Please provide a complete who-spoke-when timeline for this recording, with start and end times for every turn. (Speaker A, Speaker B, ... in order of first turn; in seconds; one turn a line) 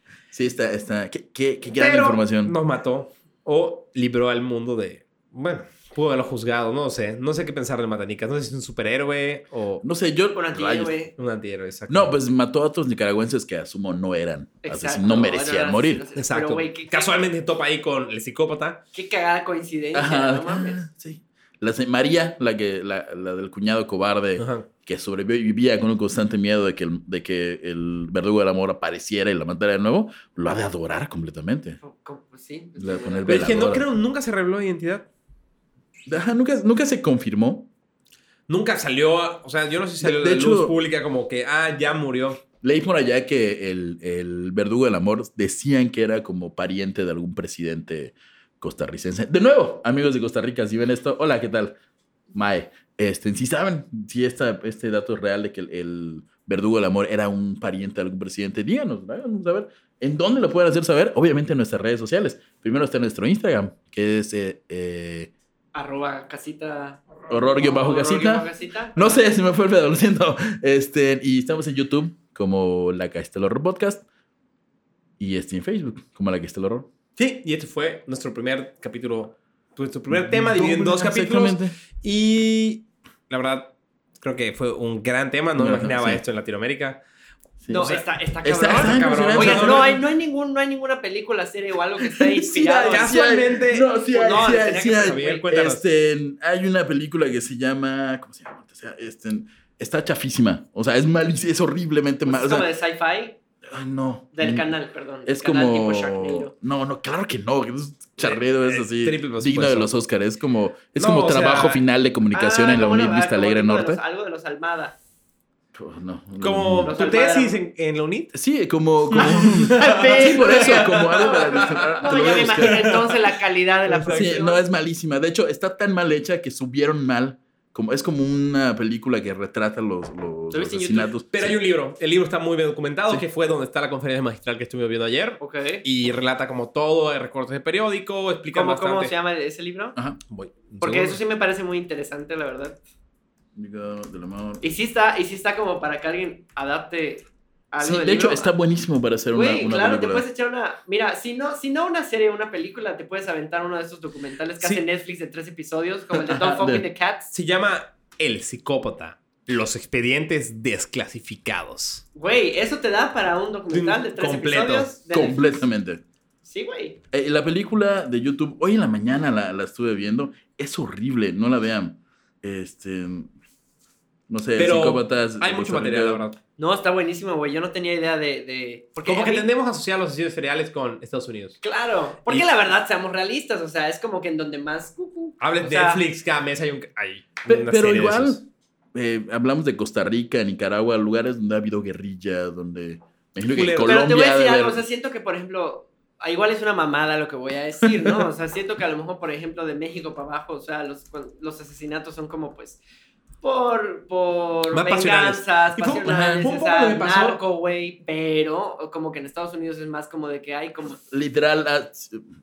Speaker A: 0.3-2.6
Speaker B: 1.8-9.8
Speaker A: 9.8-11.1
Speaker C: 10.3-11.1
Speaker B: 11.2-12.1
Speaker A: 11.9-16.0
Speaker C: 14.6-17.2
Speaker B: 16.2-18.8
Speaker C: 18.9-20.9
Speaker A: 19.9-31.8
Speaker B: 24.4-24.7
Speaker C: 31.8-33.7
Speaker A: 32.8-33.9
Speaker B: 33.3-35.1
Speaker A: 36.1-37.7
Speaker B: 38.5-42.4
Speaker A: 40.0-40.8
Speaker A: 42.6-51.8
Speaker A: 52.3-65.3
Speaker C: 65.7-69.2
Speaker A: 67.3-74.1
Speaker A: 75.2-76.9
Speaker B: 77.2-87.0
Speaker A: 80.1-81.8
Speaker A: 85.6-86.2
Speaker A: 87.6-87.9
Speaker C: 87.7-93.2
Speaker A: 88.4-90.0
Speaker B: 88.6-90.0
Speaker A: 92.0-102.7
Speaker B: 92.8-95.8
Speaker C: 94.1-95.5
Speaker C: 102.3-103.4
Speaker A: 103.7-104.7
Speaker C: 104.3-106.5
Speaker A: 105.3-114.0
Speaker B: 108.2-109.9
Speaker B: 111.0-111.8
Speaker C: 112.3-115.0
Speaker A: 115.7-116.9
Speaker B: 116.4-118.3
Speaker C: 116.9-117.6
Speaker A: 118.3-123.0
Speaker B: 119.1-123.2
Speaker C: 119.1-124.6
Speaker B: 123.9-124.2
Speaker A: 124.0-131.6
Speaker C: 130.5-131.1
Speaker B: 131.3-139.1
Speaker C: 135.4-135.8
Speaker C: 138.5-140.0
Speaker A: 139.9-140.2
Speaker B: 140.3-141.2
Speaker C: 140.8-142.8
Speaker A: 143.6-144.7
Speaker C: 144.6-148.5
Speaker A: 147.8-150.3
Speaker C: 149.3-157.3
Speaker A: 156.2-156.9
Speaker B: 157.3-162.1
Speaker C: 162.2-165.7
Speaker B: 163.7-164.9
Speaker A: 165.1-166.0
Speaker C: 166.4-167.0
Speaker A: 167.1-173.3
Speaker A: 174.3-176.2
Speaker B: 174.6-176.4
Speaker C: 176.6-179.5
Speaker B: 179.1-181.6
Speaker C: 181.6-186.0
Speaker B: 185.4-188.4
Speaker A: 187.5-188.4
Speaker A: 188.9-194.8
Speaker B: 193.4-194.0
Speaker C: 193.8-202.8
Speaker C: 203.4-211.0
Speaker B: 204.7-207.4
Speaker A: 206.1-206.5
Speaker A: 211.1-212.2